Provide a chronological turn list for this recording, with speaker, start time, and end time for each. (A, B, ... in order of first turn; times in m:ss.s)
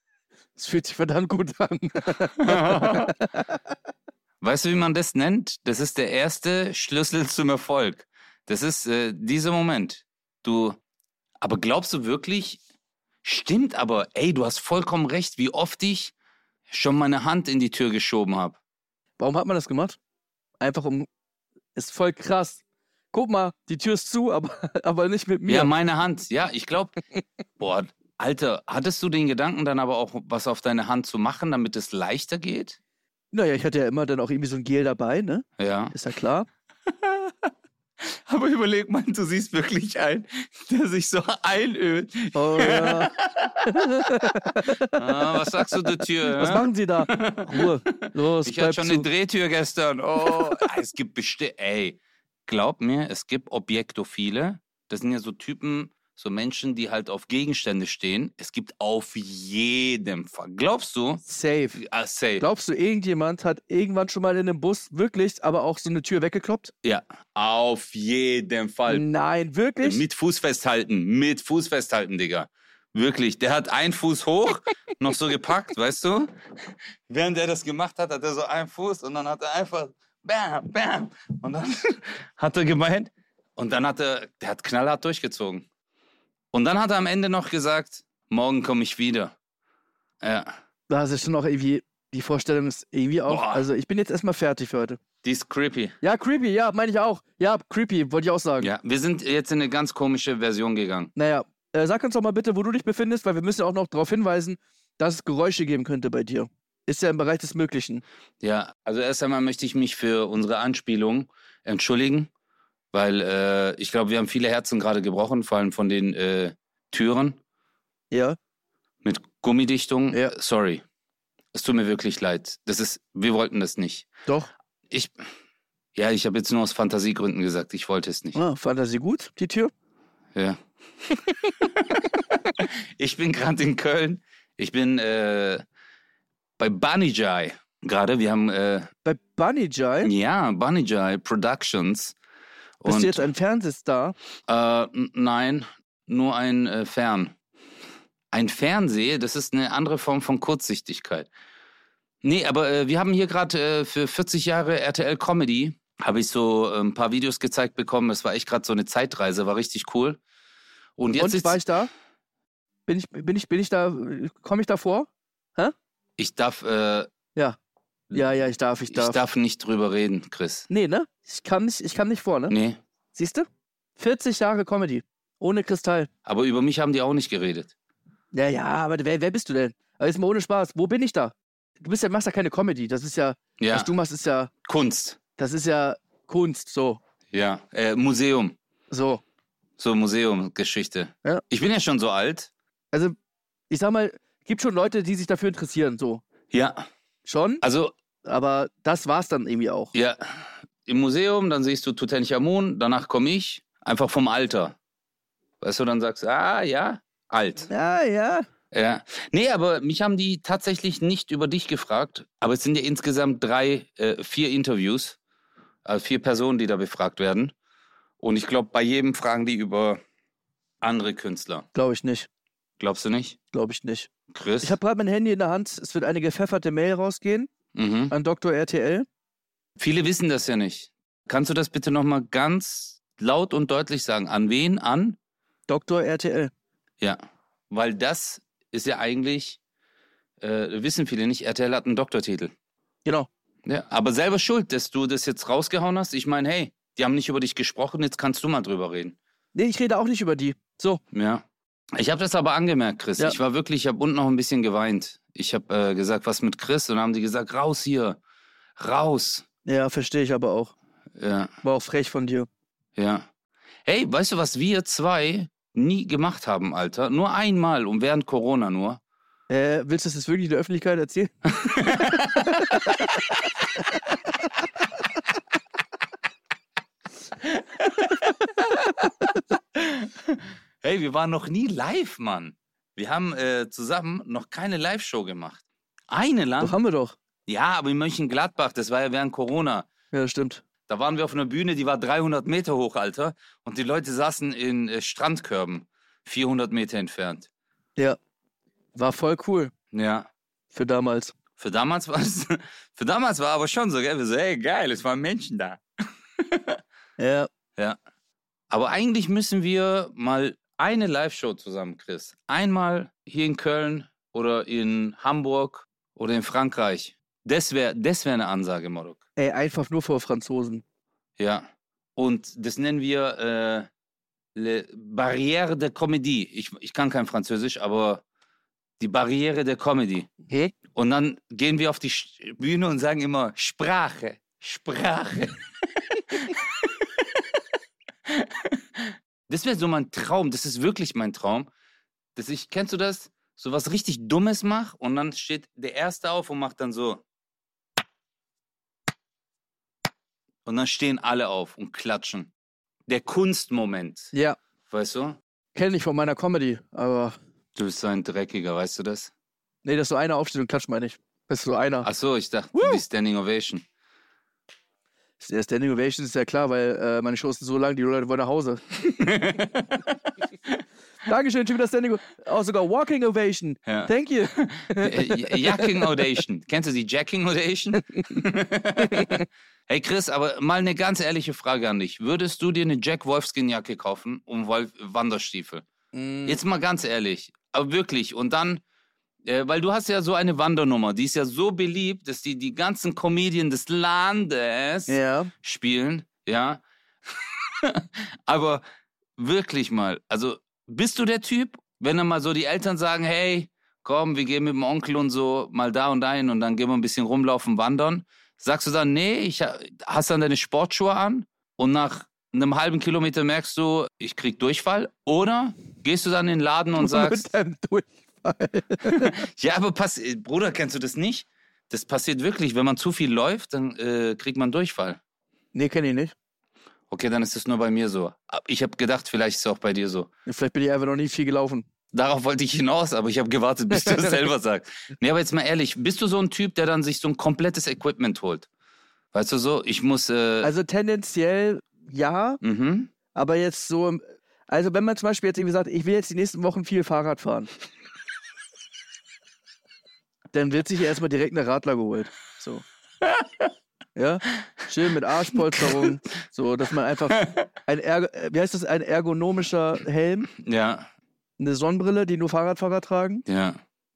0:00.6-0:03.2 A
0:02.4-0:03.1 B
0:04.4-0:10.8 B
0:11.4-0:12.6 B
0:13.2-0:16.1 B
0:16.7-0:18.6 B
0:19.2-0:20.0 A
0:20.6-0:21.1 A
0:21.7-0:22.6 A
0:23.1-0:25.7 A
0:25.5-0:27.0 B
0:27.6-0:32.8 B
0:33.3-0:36.5 A
0:35.6-0:35.9 B
0:36.9-0:37.3 B
0:38.0-1:01.2 B
0:42.3-0:43.1 A
0:43.6-0:45.3 A
0:46.3-0:49.1 A
1:01.2-1:01.8 A
1:01.8-1:02.4 B
1:02.4-1:06.7 A
1:06.8-1:09.0 B
1:08.9-1:10.0 A
1:09.8-1:25.6 B
1:26.5-1:29.3 B
1:30.2-1:30.5 B
1:30.9-1:35.0 A
1:33.3-1:33.6 B
1:35.2-1:36.0 B
1:36.0-1:38.7 A
1:38.6-1:41.1 B
1:41.2-1:48.0 A
1:48.4-1:52.3 B
1:52.9-1:57.4 B
1:58.1-1:58.4 A
1:59.0-2:00.8 B
2:01.5-2:04.1 B
2:04.9-2:05.1 B
2:05.9-2:08.4 B
2:08.3-2:09.7 A
2:10.3-2:10.6 B
2:11.6-2:15.6 B
2:16.6-2:18.9 B
2:19.0-2:20.1 A
2:20.0-2:22.1 B
2:22.8-2:23.3 B
2:22.8-2:24.1 A
2:24.5-2:27.3 B
2:28.3-2:31.3 B
2:32.2-2:40.2 B
2:41.0-2:41.6 B
2:41.2-2:41.9 A
2:42.9-2:45.7 A
2:46.2-2:47.1 B
2:48.1-2:49.2 A
2:48.9-2:50.7 B
2:50.7-2:52.5 A
2:52.5-2:52.8 B
2:53.1-2:56.1 A
2:56.2-2:57.7 B
2:58.3-3:04.5 A
3:03.6-3:03.9 B
3:04.6-3:05.2 B
3:05.4-3:07.0 A
3:07.3-3:08.6 B
3:08.9-3:09.2 A
3:09.8-3:12.5 B
3:13.7-3:16.2 A
3:16.5-3:16.9 B
3:17.2-3:17.6 A
3:17.6-3:17.9 B
3:18.2-3:19.9 A
3:19.9-3:24.8 B
3:25.6-3:27.7 B
3:27.7-3:28.5 A
3:28.7-3:35.2 B
3:35.8-3:37.5 B
3:38.2-3:40.0 B
3:40.8-3:41.6 B
3:41.7-3:42.3 A
3:42.8-3:43.4 B
3:43.5-3:44.1 A
3:44.3-3:44.8 B
3:44.6-3:47.5 A
3:47.7-3:48.1 B
3:48.1-3:49.0 A
3:49.8-3:55.2 B
3:55.7-3:56.5 A
3:57.0-3:59.6 B
4:00.4-4:02.5 B
4:03.6-4:09.2 B
4:09.5-4:11.0 A
4:11.1-4:18.2 B
4:18.8-4:19.4 B
4:19.6-4:20.7 A
4:21.2-4:21.5 B
4:21.6-4:22.5 A
4:23.0-4:23.3 B
4:23.8-4:29.0 B
4:29.5-4:31.3 A
4:31.5-4:33.0 B
4:37.4-4:39.0 B
4:39.7-4:46.8 B
4:46.6-4:47.2 A
4:47.4-4:49.9 B
4:50.1-4:50.6 A
4:50.9-4:57.5 B
4:58.9-4:59.7 A
4:59.9-5:00.3 B
5:00.7-5:01.3 A
5:01.6-5:05.8 B
5:06.4-5:06.8 B
5:07.2-5:07.5 A
5:08.7-5:19.2 B
5:19.4-5:20.8 A
5:21.4-5:23.9 B
5:24.5-5:28.2 B
5:29.0-5:30.3 B
5:30.9-5:37.4 B
5:38.3-5:41.7 B
5:42.4-5:47.2 B
5:50.6-5:52.5 B
5:53.1-5:54.3 B
5:54.3-5:54.6 A
5:54.9-5:55.4 B
5:55.7-5:57.4 A
5:57.7-5:59.3 B
5:59.8-6:02.1 A
6:02.0-6:03.8 B
6:02.7-6:03.0 A
6:05.4-6:08.8 A
6:08.9-6:10.2 B
6:11.2-6:16.0 A
6:13.8-6:25.8 B
6:26.1-6:26.6 A
6:26.4-6:28.8 B
6:29.4-6:38.8 B
6:35.1-6:35.5 A
6:39.4-6:57.4 B
6:57.0-6:59.3 A
6:59.0-7:05.2 B
7:05.7-7:06.3 A
7:07.1-7:10.3 B
7:10.4-7:11.9 A
7:12.1-7:18.7 B
7:19.3-7:20.7 B
7:20.6-7:22.6 A
7:22.6-7:23.1 B
7:23.3-7:27.7 A
7:30.5-7:32.8 A
7:33.2-7:33.7 B
7:34.2-7:40.5 A
7:35.7-7:36.1 B
7:40.5-7:41.1 B
7:41.6-7:43.4 A
7:43.5-7:43.8 B